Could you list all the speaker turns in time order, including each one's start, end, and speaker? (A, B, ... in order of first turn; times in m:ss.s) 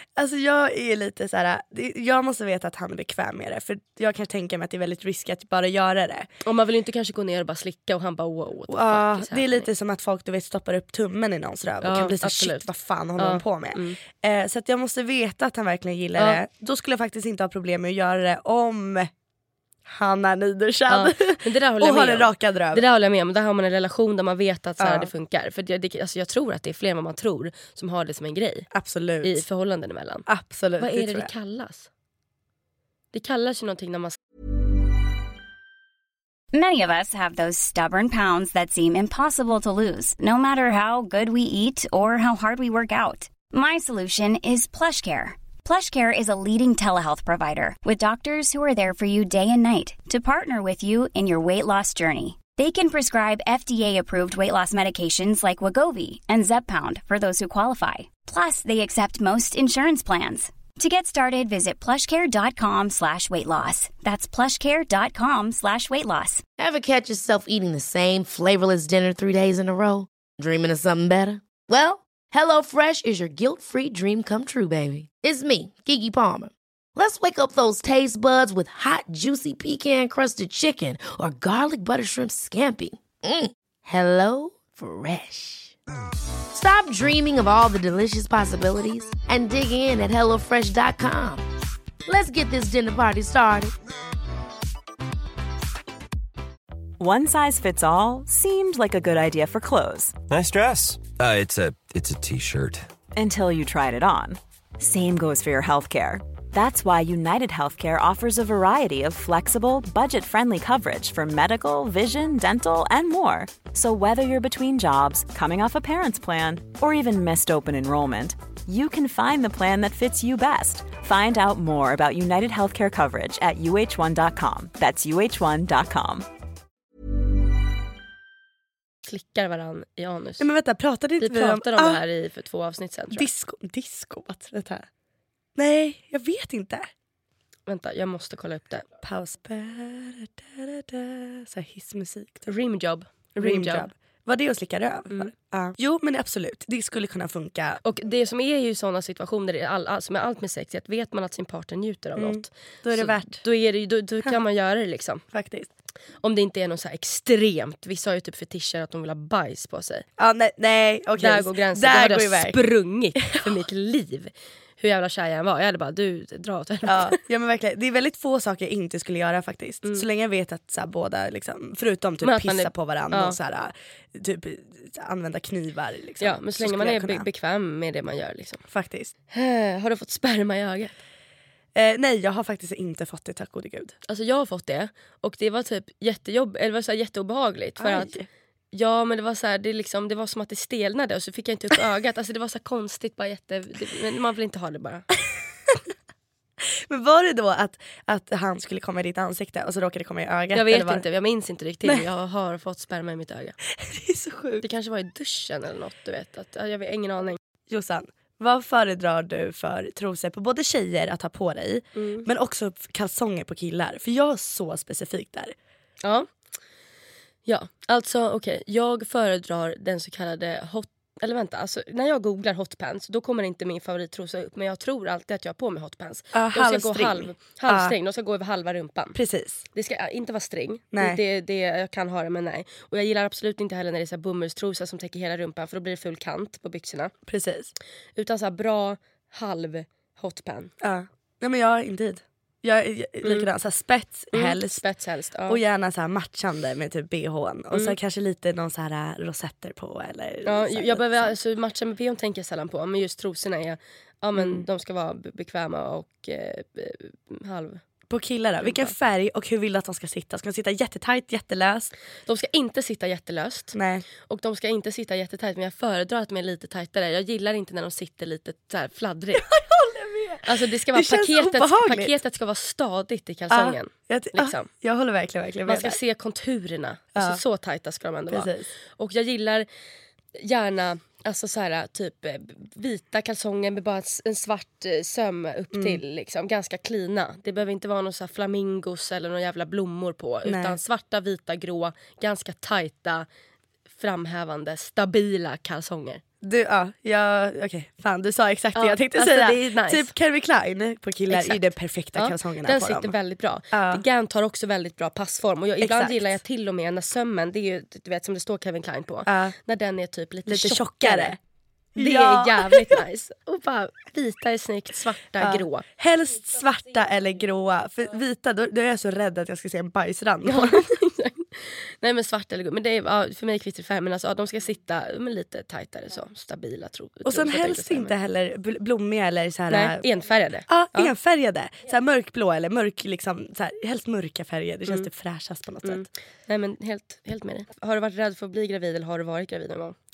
0:00.2-0:06.3 A
0:06.4-0:09.7 B
0:08.7-0:19.1 A
0:11.8-0:14.0 B
0:19.9-0:22.8 A
0:20.9-0:28.7 B
0:24.8-0:25.1 A
0:28.7-0:29.4 A
0:29.2-0:30.3 B
0:30.3-0:31.3 A
0:30.8-0:31.9 B
0:33.1-0:34.2 B
0:36.5-1:06.4 C
1:06.6-1:25.8 D
1:26.5-1:31.4 D
1:32.0-1:33.7 D
1:37.0-1:40.1 E
1:40.3-1:42.9 F
1:43.1-2:06.3 E
2:09.0-2:10.5 B
2:10.4-2:12.0 A
2:11.2-2:13.3 B
2:13.1-2:14.9 A
2:15.6-2:16.9 A
2:17.7-2:18.8 B
2:19.0-2:22.4 A
2:22.4-2:23.9 B
2:23.4-2:27.8 A
2:27.8-2:35.2 B
2:32.2-2:33.4 A
2:35.3-2:35.7 A
2:36.2-2:40.0 B
2:40.2-2:42.6 A
2:41.2-2:47.2 B
2:43.2-2:43.5 A
2:46.8-2:57.3 A
2:52.2-2:53.4 B
2:56.2-2:58.6 B
2:58.7-2:59.1 A
2:59.3-3:01.0 B
3:01.7-3:03.9 A
3:04.1-3:08.1 B
3:07.8-3:08.2 A
3:08.7-3:15.0 B
3:16.9-3:21.0 A
3:20.5-3:23.6 B
3:23.8-3:24.6 A
3:24.6-3:27.4 B
3:27.7-3:35.5 A
3:32.0-3:32.3 B
3:37.4-3:49.2 B
3:46.3-3:47.9 A
3:49.1-3:49.6 A
3:49.7-3:57.1 B
3:50.9-3:51.2 A
3:57.3-3:57.7 A
3:58.2-4:00.7 B
4:00.8-4:04.8 A
4:03.2-4:03.5 B
4:04.3-4:05.6 B
4:05.5-4:11.3 A
4:10.4-4:17.8 B
4:14.3-4:14.7 A
4:18.1-4:21.9 A
4:18.6-4:18.9 B
4:22.2-4:29.4 B
4:23.7-4:24.0 A
4:29.4-4:32.1 A
4:30.4-4:34.7 B
4:33.5-4:36.0 A
4:35.7-4:39.6 B
4:37.2-4:37.4 A
4:38.3-4:38.7 A
4:40.4-4:53.2 B
4:45.7-4:46.0 A
4:50.4-4:50.8 A
4:54.0-4:56.2 B
4:56.4-5:03.1 A
4:58.7-5:00.1 B
5:01.3-5:11.4 B
5:03.7-5:04.0 A
5:05.8-5:06.4 A
5:09.3-5:09.5 A
5:10.5-5:11.4 A
5:12.0-5:13.0 A
5:12.0-5:15.8 B
5:15.4-5:20.8 A
5:20.4-5:28.1 B
5:27.2-5:30.0 A
5:29.7-5:31.1 B
5:30.7-5:36.0 A
5:35.8-5:39.9 B